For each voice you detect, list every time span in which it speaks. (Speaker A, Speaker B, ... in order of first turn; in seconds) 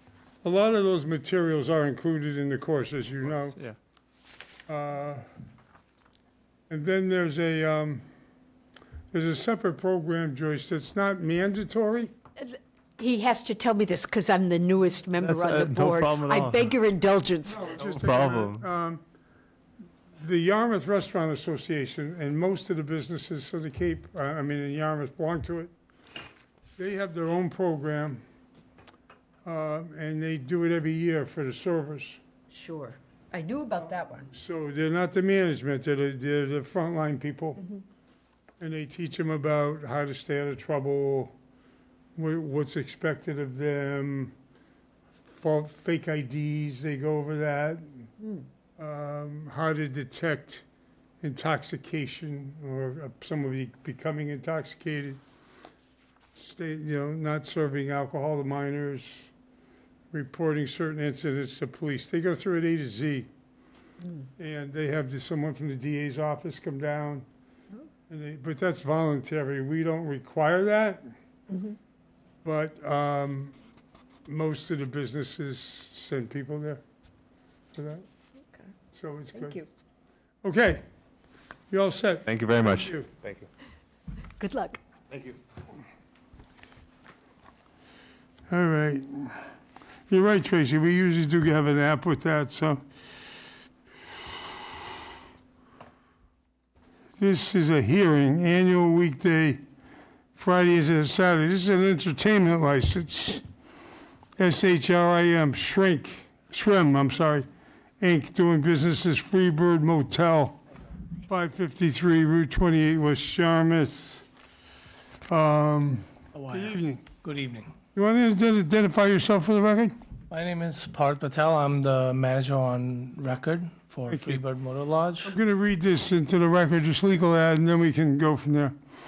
Speaker A: 0.4-3.6, 4.7-5.2, 6.7-8.0, 9.1-12.2, 17.4-19.0, 20.2-25.7, 26.8-28.2, 29.4-32.2, 34.3-37.6, 38.6-41.3, 42.2-44.3, 45.3-48.1, 48.8-50.6, 51.2-55.2, 56.4-59.3, 60.1-63.3, 64.4-67.2, 68.1-71.1, 72.4-73.6, 74.3-76.8, 77.8-78.0, 78.9-79.6, 80.4-80.8, 81.7-83.1, 88.5-89.4, 90.1-92.8, 97.2-99.6, 100.4-103.4, 104.4-107.5, 108.0-110.6, 111.3-114.2, 115.3-117.1, 118.0-120.0, 124.1-124.4, 125.3-128.8
Speaker B: 3.4-3.8, 15.1-16.7, 17.8-18.7, 82.3-83.5
Speaker C: 12.4-17.8, 32.5-34.3, 48.2-48.5, 64.0-64.3, 71.5-71.8, 79.3-79.7, 84.4-84.8
Speaker D: 116.3-117.7, 120.3-125.3